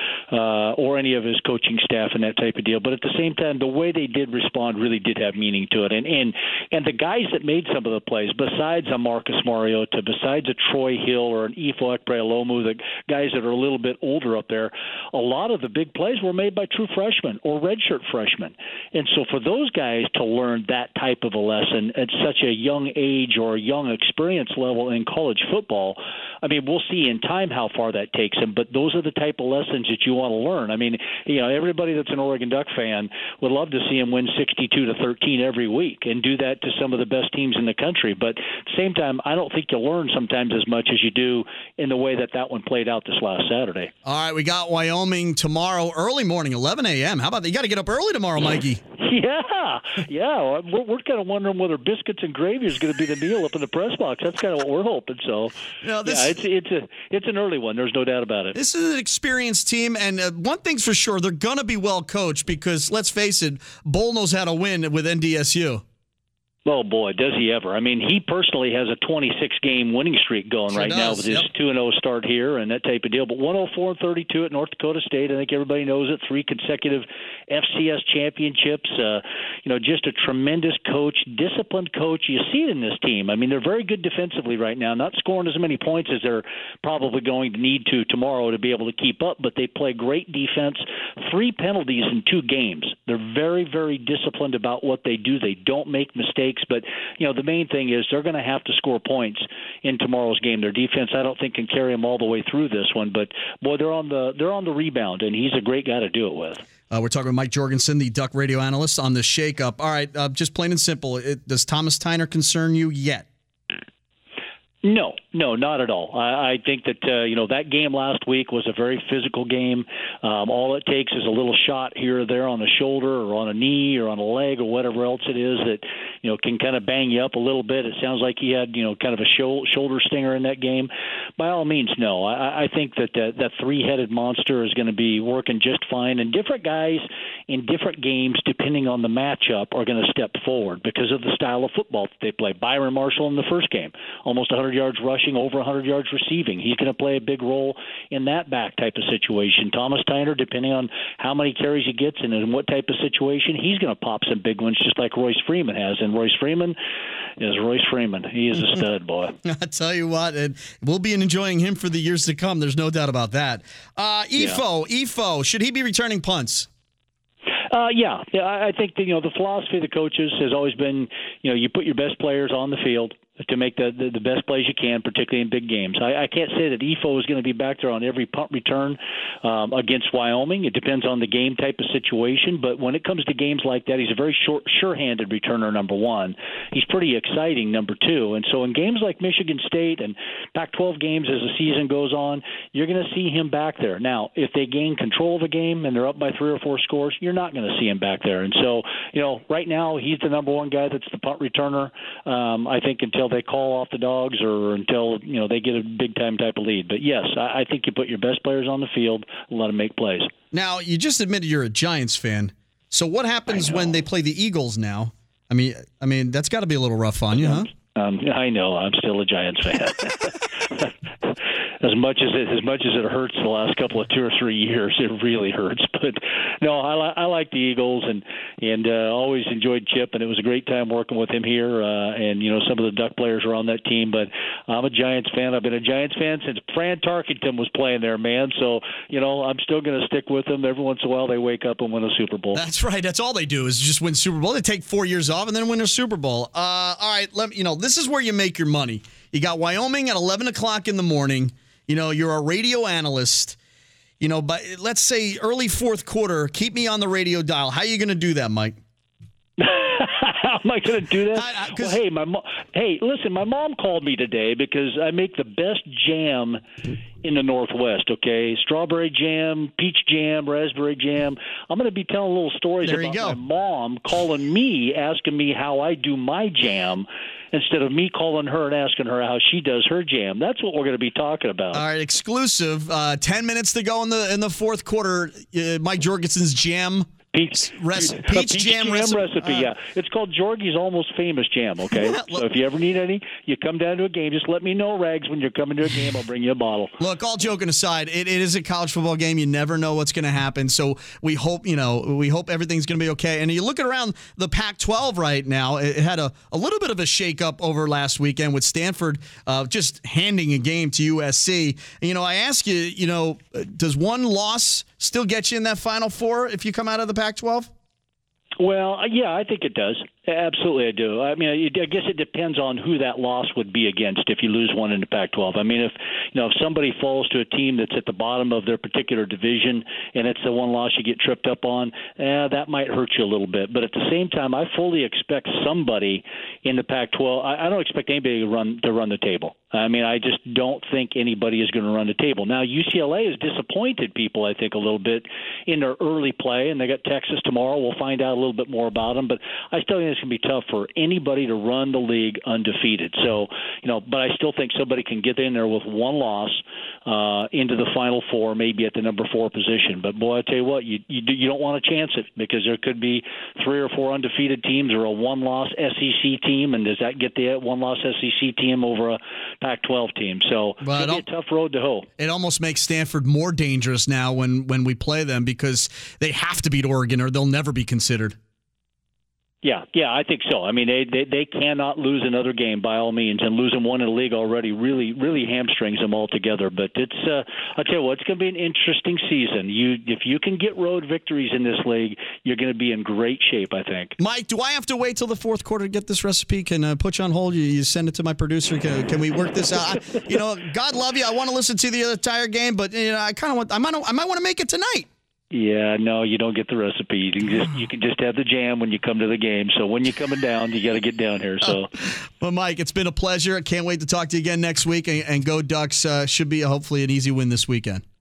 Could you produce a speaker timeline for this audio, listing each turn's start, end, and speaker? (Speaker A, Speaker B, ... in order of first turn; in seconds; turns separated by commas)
Speaker A: 0.3-43.9, Speaker B: 44.0-48.8, Speaker A: 49.0-58.5, Speaker B: 55.8-56.4, Speaker B: 58.5-65.8, Speaker A: 66.7-106.6, Speaker B: 70.7-71.5, Speaker B: 106.9-113.3, Speaker A: 114.8-156.8, Speaker A: 157.4-159.3, Speaker B: 159.4-166.7, Speaker A: 167.7-210.3, Speaker B: 210.5-217.7, Speaker A: 217.4-220.9, Speaker A: 221.8-242.6, Speaker B: 242.5-253.6, Speaker B: 254.2-258.8, Speaker A: 259.6-266.6, Speaker B: 261.3-262.0, Speaker A: 267.2-281.8, Speaker B: 272.8-273.4, Speaker B: 281.7-289.7, Speaker A: 287.3-297.0, Speaker B: 291.9-292.4, Speaker B: 297.0-317.7, Speaker A: 318.6-372.1, Speaker B: 370.8-371.2, Speaker B: 372.2-378.4, Speaker A: 379.6-394.1, Speaker B: 394.2-405.1, Speaker A: 405.5-411.9, Speaker B: 411.6-418.0